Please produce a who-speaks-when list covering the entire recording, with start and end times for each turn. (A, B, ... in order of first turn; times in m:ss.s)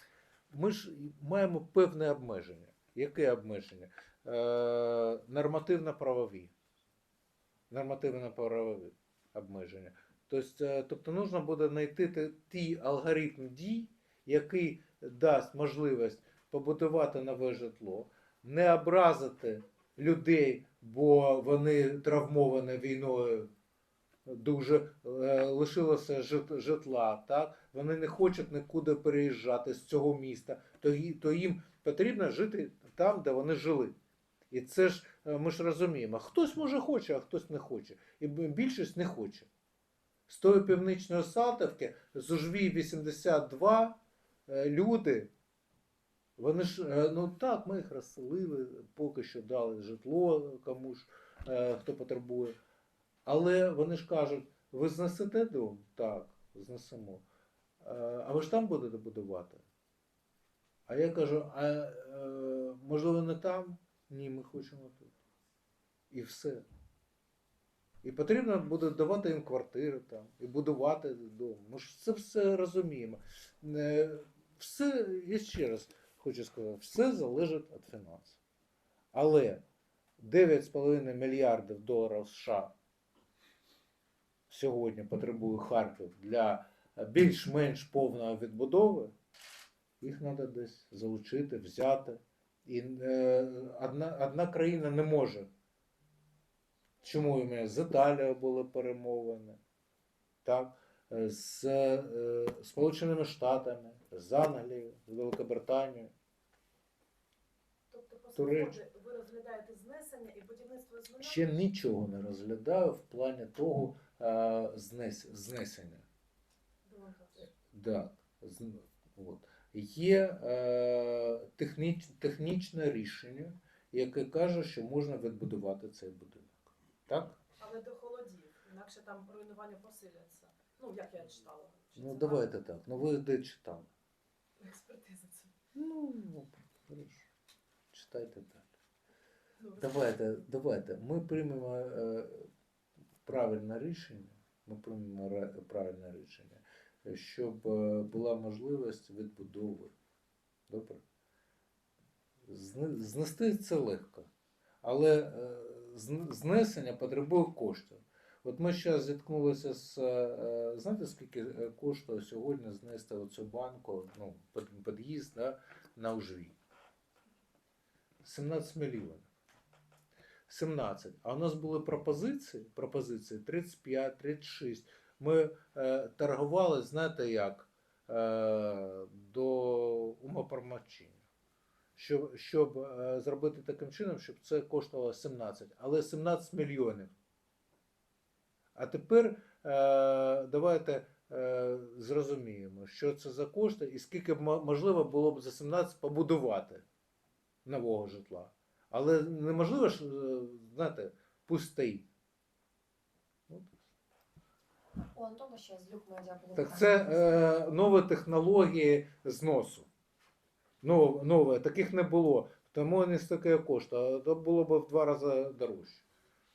0:00.5-0:06.5 A
0:07.7-0:23.5 A
0:24.3-0:33.9 A
0:34.5-0:39.5 A
0:40.3-0:45.3 A
0:46.4-0:52.6 A
0:53.3-0:57.2 A
0:57.8-0:59.6 A
1:00.9-1:05.1 A
1:06.1-1:06.7 A
1:08.0-1:18.4 A
1:19.1-1:19.6 A
1:20.2-1:22.7 A
1:24.5-1:29.1 A
1:30.0-1:35.5 A
1:37.0-1:39.6 A
1:40.4-1:46.1 A
1:47.9-1:51.5 B
1:48.4-1:48.8 A
1:51.2-1:56.0 A
1:56.8-1:57.5 B
1:57.5-2:07.4 A
2:07.6-2:12.5 B
2:12.0-2:13.9 A
2:14.6-2:15.5 B
2:15.8-2:17.3 A
2:17.9-2:18.7 A
2:19.6-2:19.9 B
2:19.8-2:22.5 A
2:23.2-2:29.9 A
2:30.7-2:31.0 A
2:32.5-2:34.3 A
2:34.8-2:46.6 A
2:48.2-2:49.3 A
2:50.5-3:01.2 A
3:02.0-3:07.1 A
3:08.8-3:16.8 A
3:17.6-3:22.1 A
3:23.5-3:23.8 A
3:25.0-3:27.3 C
3:26.5-3:29.9 A
3:30.8-3:36.1 A